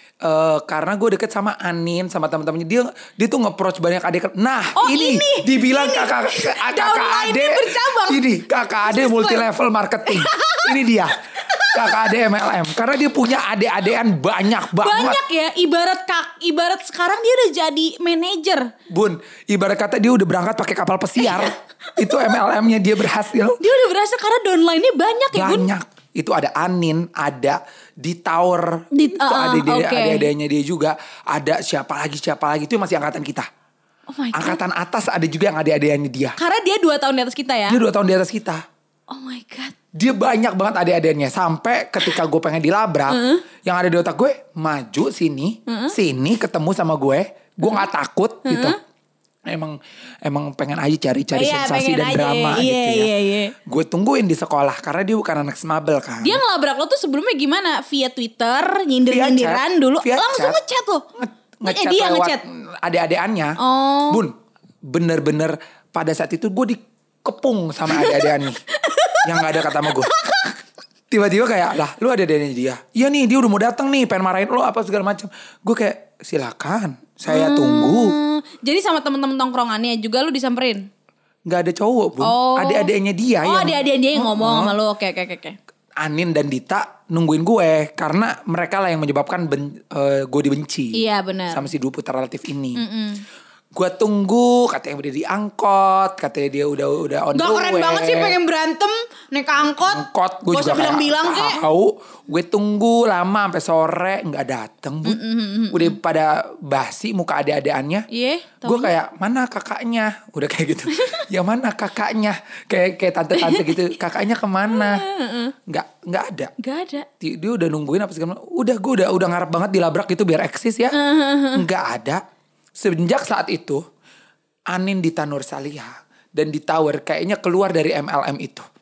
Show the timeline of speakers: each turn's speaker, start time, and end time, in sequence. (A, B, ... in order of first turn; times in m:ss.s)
0:00.2-0:15.2 A
0:04.8-0:08.2 B
0:08.8-0:09.5 B
0:10.1-0:10.8 B
0:11.4-0:12.0 B
0:14.7-0:18.7 B
0:18.9-0:23.6 A
0:21.2-0:21.5 B
0:22.0-0:22.4 B
0:23.6-0:25.7 B
0:25.3-0:33.5 A
0:28.9-0:30.3 B
0:34.1-0:34.6 B
0:34.3-0:36.4 A
0:36.4-0:37.8 B
0:37.7-0:38.6 A
0:39.1-0:39.7 B
0:39.9-0:48.8 A
0:43.1-0:43.4 B
0:45.7-0:46.0 B
0:48.4-0:48.8 B
0:49.5-0:53.1 A
0:51.3-0:53.5 B
0:53.6-0:56.4 A
0:56.2-1:01.0 B
0:59.1-1:00.6 A
1:01.1-1:03.6 A
1:01.6-1:02.4 B
1:03.6-1:04.2 B
1:04.1-1:04.3 A
1:04.9-1:08.6 A
1:07.9-1:10.6 B
1:09.2-1:10.1 A
1:11.1-1:18.2 A
1:17.3-1:20.8 B
1:21.5-1:24.7 A
1:22.2-1:22.9 B
1:23.4-1:25.6 B
1:26.0-1:31.0 A
1:30.9-1:31.7 B
1:31.5-1:32.8 A
1:32.8-1:33.2 B
1:33.7-1:38.4 A
1:37.3-1:41.6 B
1:39.6-1:45.2 A
1:45.0-1:45.9 B
1:45.7-1:48.0 A
1:48.1-1:48.9 B
1:48.6-1:55.0 A
1:50.9-1:51.2 B
1:53.4-1:53.8 B
1:54.7-1:55.5 B
1:55.7-1:56.5 A
1:56.6-1:57.1 B
1:57.2-2:01.0 A
2:00.9-2:01.7 B
2:01.5-2:02.2 A
2:02.8-2:03.8 A
2:04.7-2:08.6 A